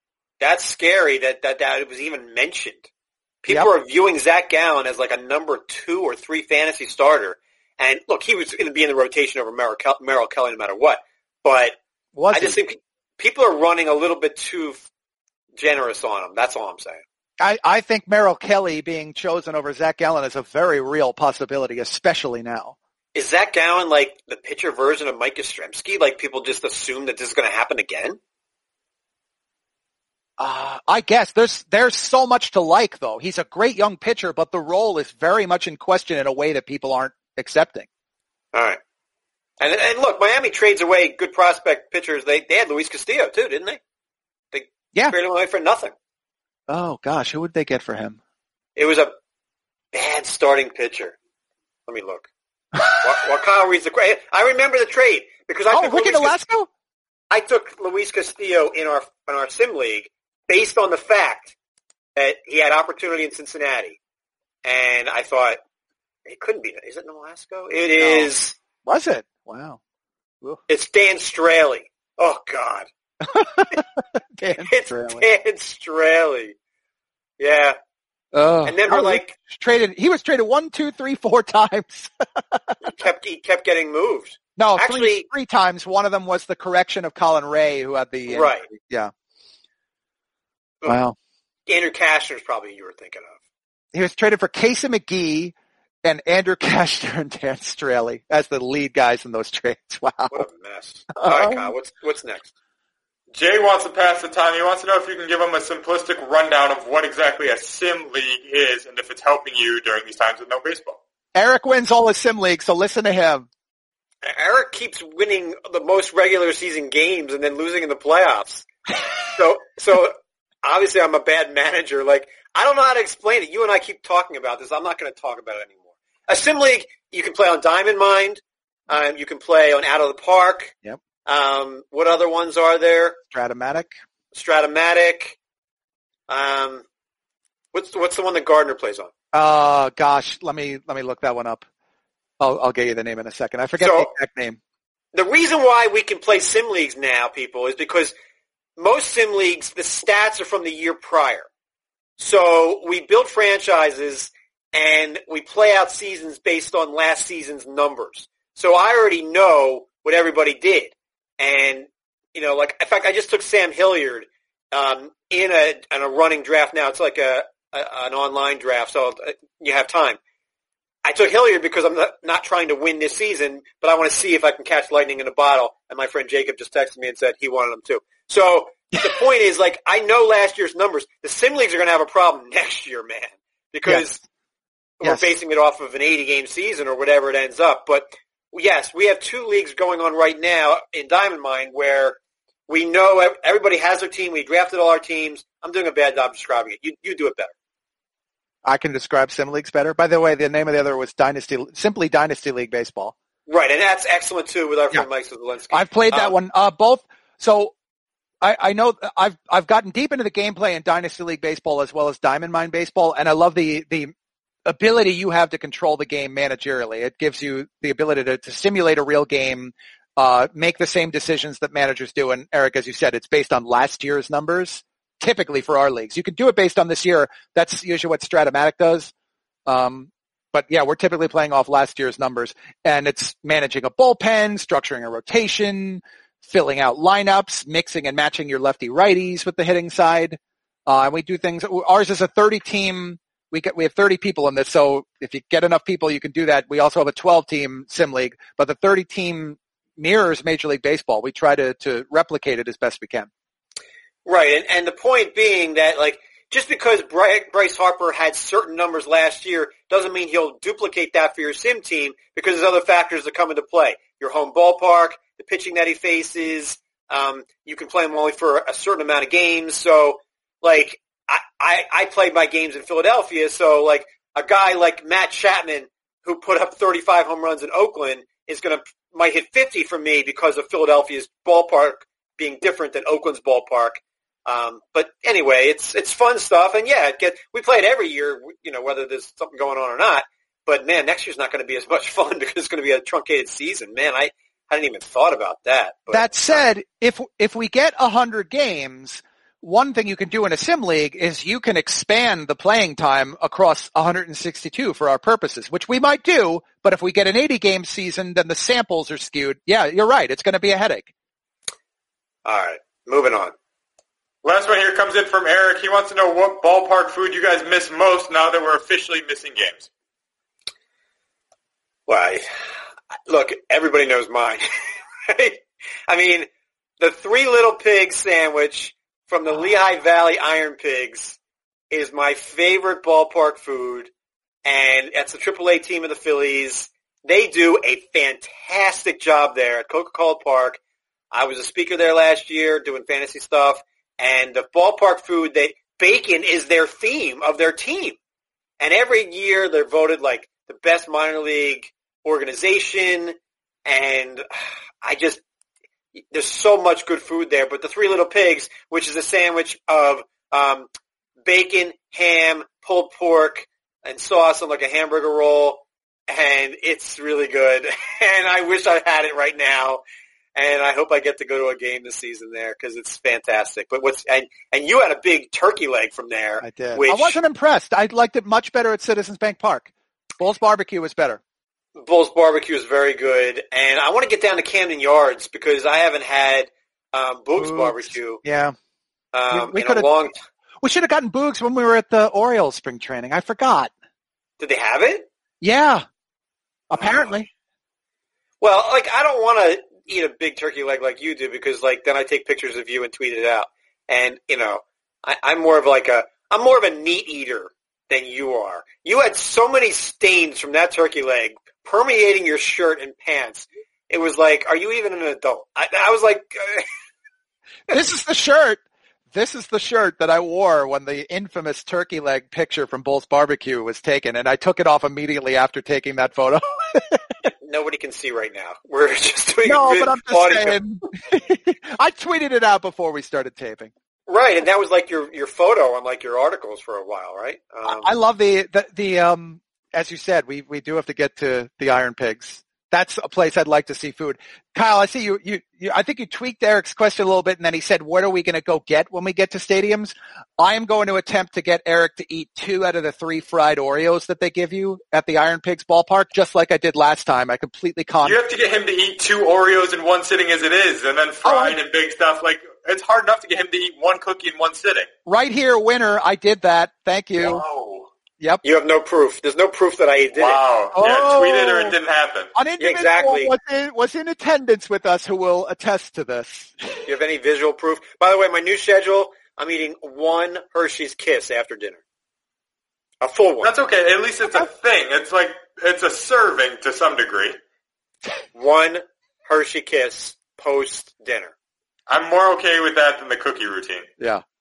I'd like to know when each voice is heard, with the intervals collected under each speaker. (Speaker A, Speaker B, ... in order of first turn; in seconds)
Speaker A: 0.4-2.8, 3.4-11.8, 12.3-14.8, 15.6-17.0, 23.1-28.2, 38.5-38.8, 39.6-43.8, 44.5-45.9, 48.8-49.1, 49.9-51.1, 51.9-52.3, 52.9-56.3, 57.3-61.5, 62.1-64.0, 64.6-65.6, 66.2-68.5, 70.7-72.9, 74.7-76.5, 77.4-77.8, 78.6-79.3, 82.8-85.2, 88.3-88.7, 91.7-93.4, 100.3-102.5, 114.2-130.7, 131.2-133.2, 134.3-135.4, 136.3-136.8, 137.7-139.1, 143.8-144.1, 145.1-148.1, 148.8-151.5, 152.2-170.2, 171.0-184.2, 185.0-197.5, 203.5-206.3, 254.2-296.7, 312.4-313.5, 322.1-322.4, 323.3-324.6, 325.2-326.5, 327.0-331.4, 331.9-334.1, 334.6-340.8, 341.3-348.2, 348.8-353.3, 353.9-354.5, 355.0-355.4, 356.2-360.9, 361.4-370.0, 370.5-377.4, 382.0-388.4, 389.3-390.3, 394.6-395.3, 397.0-397.3, 398.6-416.9, 427.6-430.8, 434.3-438.1, 468.6-470.6, 472.8-473.5, 477.1-482.0, 483.2-483.7, 488.5-491.5
Speaker B: 12.2-12.6, 17.4-22.7, 30.4-37.9, 46.7-48.2, 55.7-56.7, 68.0-68.3, 68.8-69.8, 73.2-75.3, 78.3-82.9, 84.6-89.1, 90.9-91.1, 93.9-100.5, 101.2-101.7, 111.3-113.5, 133.3-133.9, 139.3-141.6, 142.4-144.6, 185.0-185.3, 198.6-203.1, 205.7-207.7, 208.4-214.1, 214.7-229.1, 229.7-253.3, 296.1-311.1, 376.6-381.4, 387.6-388.7, 389.5-390.1, 390.8-393.9, 395.6-396.0, 396.9-397.5, 417.9-418.8, 419.3-427.3, 429.6-433.9, 437.8-458.4, 461.4-461.8, 465.2-467.6, 470.9-471.9, 472.5-477.0
Speaker C: 103.3-111.0, 314.4-319.9, 458.2-465.1, 467.4-468.1, 470.3-472.5, 483.6-487.6, 492.1-494.1